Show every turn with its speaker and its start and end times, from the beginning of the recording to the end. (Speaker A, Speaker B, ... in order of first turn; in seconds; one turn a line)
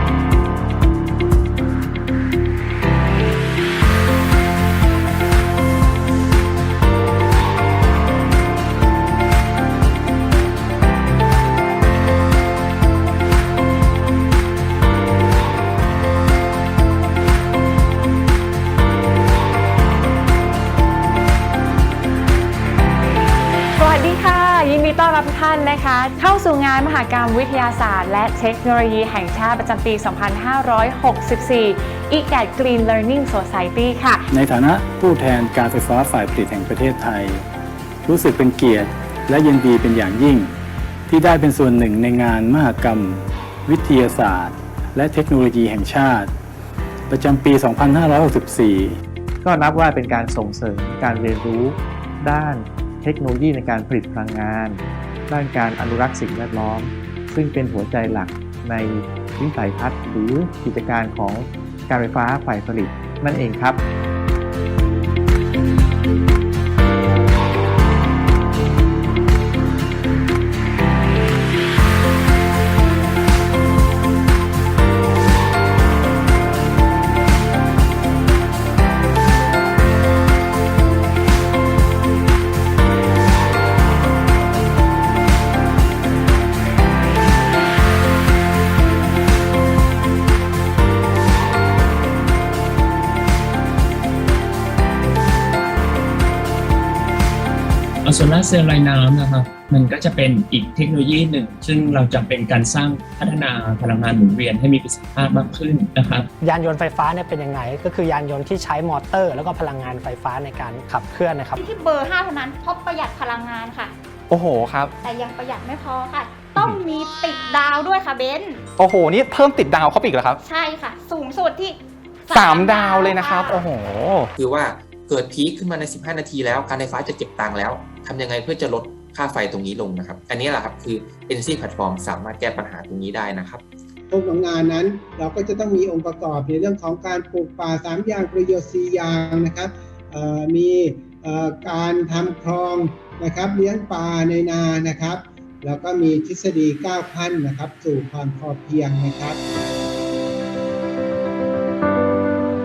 Speaker A: 23.8-34.2
Speaker B: 34.3-37.4
Speaker B: 38.0-40.5
Speaker B: 41.1-46.3
Speaker B: 47.1-49.0
Speaker C: 49.4-63.8
Speaker D: 98.0-106.2
Speaker E: 106.4-111.6
Speaker F: 111.6-113.9
Speaker G: 114.3-114.9
Speaker F: 115.0-118.6
Speaker G: 118.8-120.4
Speaker F: 120.5-121.8
Speaker F: 122.3-123.5
Speaker G: 122.3-124.3
Speaker H: 124.4-133.6
Speaker I: 134.1-149.4